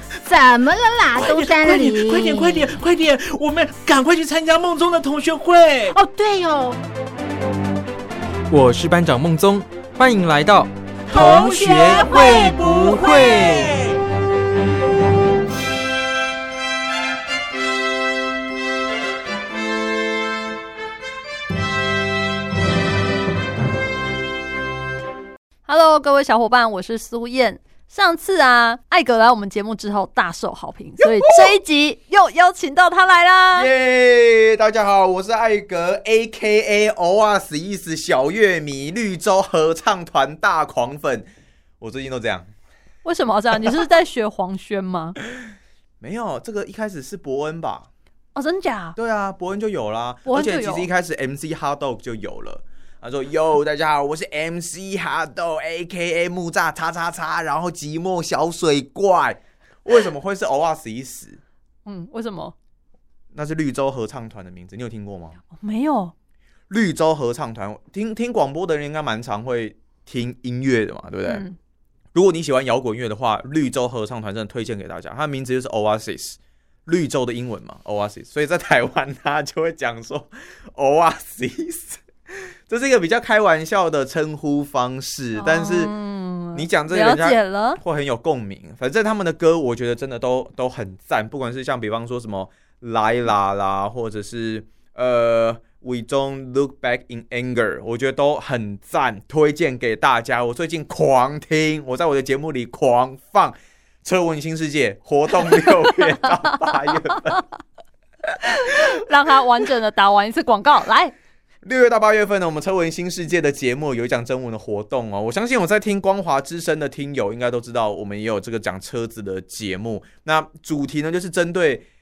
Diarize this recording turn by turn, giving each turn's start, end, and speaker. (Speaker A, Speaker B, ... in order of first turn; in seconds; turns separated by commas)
Speaker A: 0.2-2.7, Speaker B: 1.1-6.0, Speaker A: 5.9-6.8, Speaker C: 8.5-10.7, Speaker B: 11.1-13.9, Speaker A: 11.1-13.6, Speaker C: 13.0-13.7, Speaker D: 25.7-33.7, Speaker E: 31.0-31.6, Speaker E: 33.5-41.3, Speaker E: 41.8-42.5, Speaker D: 43.0-45.2, Speaker E: 46.0-47.9, Speaker D: 48.3-49.0, Speaker E: 49.0-61.4, Speaker D: 50.2-50.9, Speaker D: 61.8-62.5, Speaker E: 63.3-65.4, Speaker D: 65.5-66.1, Speaker E: 66.7-71.5, Speaker D: 71.2-71.6, Speaker E: 72.1-85.9, Speaker D: 85.3-87.8, Speaker E: 86.5-107.5, Speaker E: 108.3-109.0, Speaker D: 108.5-111.2, Speaker E: 111.6-121.8